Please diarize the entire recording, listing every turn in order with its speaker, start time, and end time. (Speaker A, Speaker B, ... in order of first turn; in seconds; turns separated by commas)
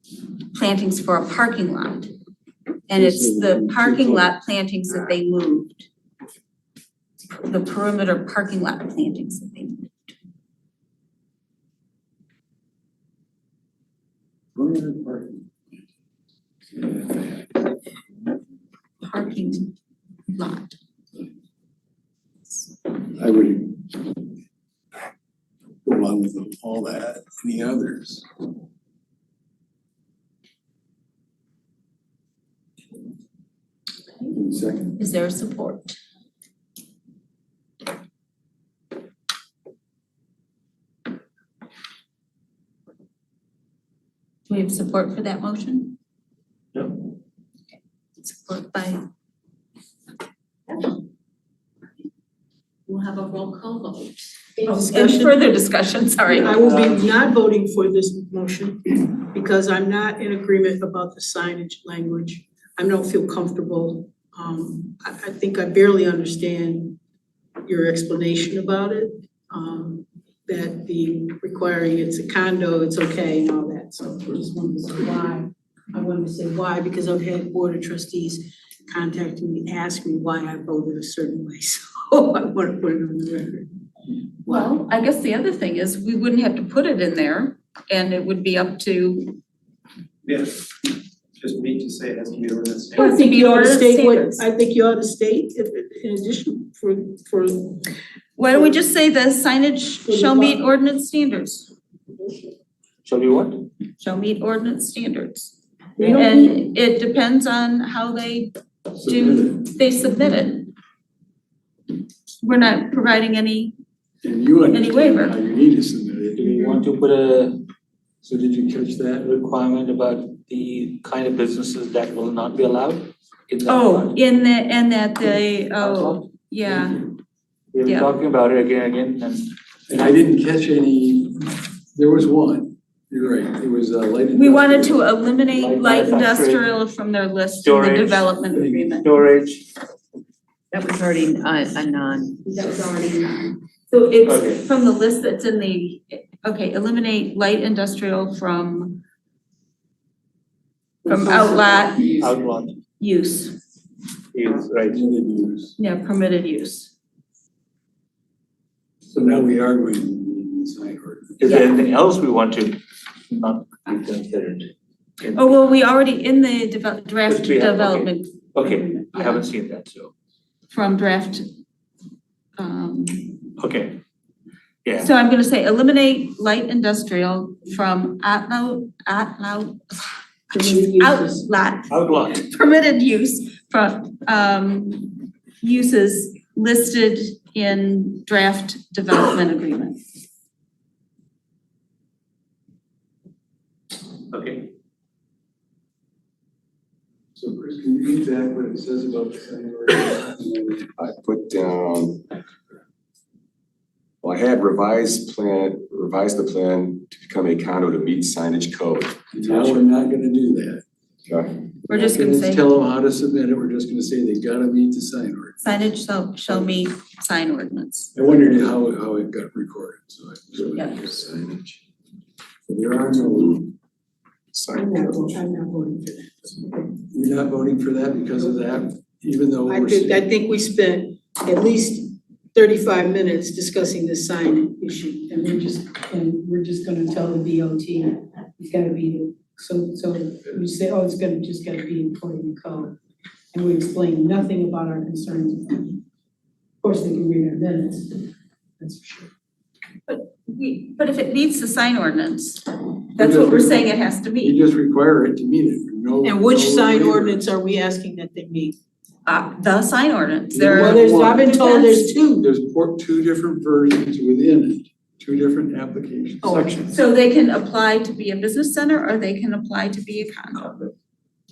Speaker A: 0.5-2.1, Speaker A: 2.9-5.9, Speaker A: 7.3-9.9, Speaker B: 14.6-15.4, Speaker B: 16.7-17.4, Speaker A: 19.0-19.7, Speaker A: 20.3-20.8, Speaker B: 23.1-24.0, Speaker B: 25.8-28.2, Speaker B: 34.4-34.9, Speaker A: 35.0-36.0, Speaker A: 44.5-46.0, Speaker A: 48.2-49.0, Speaker A: 52.9-56.7, Speaker C: 54.6-55.4, Speaker C: 56.3-67.0, Speaker D: 56.5-57.0, Speaker C: 67.6-83.7, Speaker A: 84.5-89.4, Speaker E: 90.2-90.7, Speaker E: 91.4-93.0, Speaker C: 92.9-97.8, Speaker A: 92.9-94.4, Speaker A: 98.3-101.7, Speaker C: 98.5-98.8, Speaker C: 100.1-100.6, Speaker D: 103.0-103.7, Speaker A: 104.0-110.7, Speaker C: 106.0-106.6, Speaker B: 109.0-109.6, Speaker A: 112.4-113.7, Speaker B: 114.2-116.8, Speaker A: 114.7-115.4, Speaker D: 116.3-117.6, Speaker D: 118.2-124.2, Speaker B: 118.4-118.8, Speaker A: 123.7-127.0, Speaker D: 125.8-126.2, Speaker D: 127.7-129.5, Speaker A: 127.8-128.1, Speaker B: 129.9-135.0, Speaker A: 134.3-139.1, Speaker D: 135.5-136.7, Speaker D: 137.6-138.4, Speaker B: 138.5-139.0, Speaker D: 139.0-139.7, Speaker F: 140.7-142.4, Speaker A: 142.4-149.0, Speaker D: 144.2-144.6, Speaker A: 151.0-152.1, Speaker C: 151.2-152.0, Speaker F: 151.2-152.0, Speaker D: 152.1-152.8, Speaker A: 153.0-153.6, Speaker D: 154.3-155.0, Speaker B: 154.7-155.7, Speaker A: 155.8-156.9, Speaker B: 159.1-161.4, Speaker D: 161.4-165.6, Speaker A: 161.5-161.8, Speaker A: 165.3-169.5, Speaker D: 167.2-170.1, Speaker A: 170.7-171.5, Speaker A: 172.6-173.4, Speaker D: 173.6-174.0, Speaker D: 174.8-175.1, Speaker A: 175.0-190.0, Speaker C: 180.5-181.4, Speaker D: 181.9-182.4, Speaker D: 194.3-194.7, Speaker B: 197.4-200.9, Speaker G: 201.0-202.2, Speaker G: 204.2-209.8, Speaker B: 209.3-210.8, Speaker G: 211.2-211.5, Speaker A: 211.9-212.6, Speaker B: 211.9-215.6, Speaker A: 215.6-218.1, Speaker B: 218.1-220.9, Speaker A: 220.7-221.0, Speaker G: 220.8-221.7, Speaker B: 222.7-223.7, Speaker G: 224.5-225.3, Speaker C: 224.7-226.9, Speaker B: 227.1-230.2, Speaker C: 229.7-242.9, Speaker C: 243.5-246.0, Speaker C: 246.8-248.3, Speaker C: 248.8-249.3, Speaker A: 250.1-254.6, Speaker B: 253.2-257.4, Speaker C: 256.2-258.8, Speaker A: 259.2-262.1, Speaker B: 260.5-261.4, Speaker C: 260.6-262.4, Speaker B: 262.3-266.9, Speaker C: 266.4-266.8, Speaker A: 266.9-270.9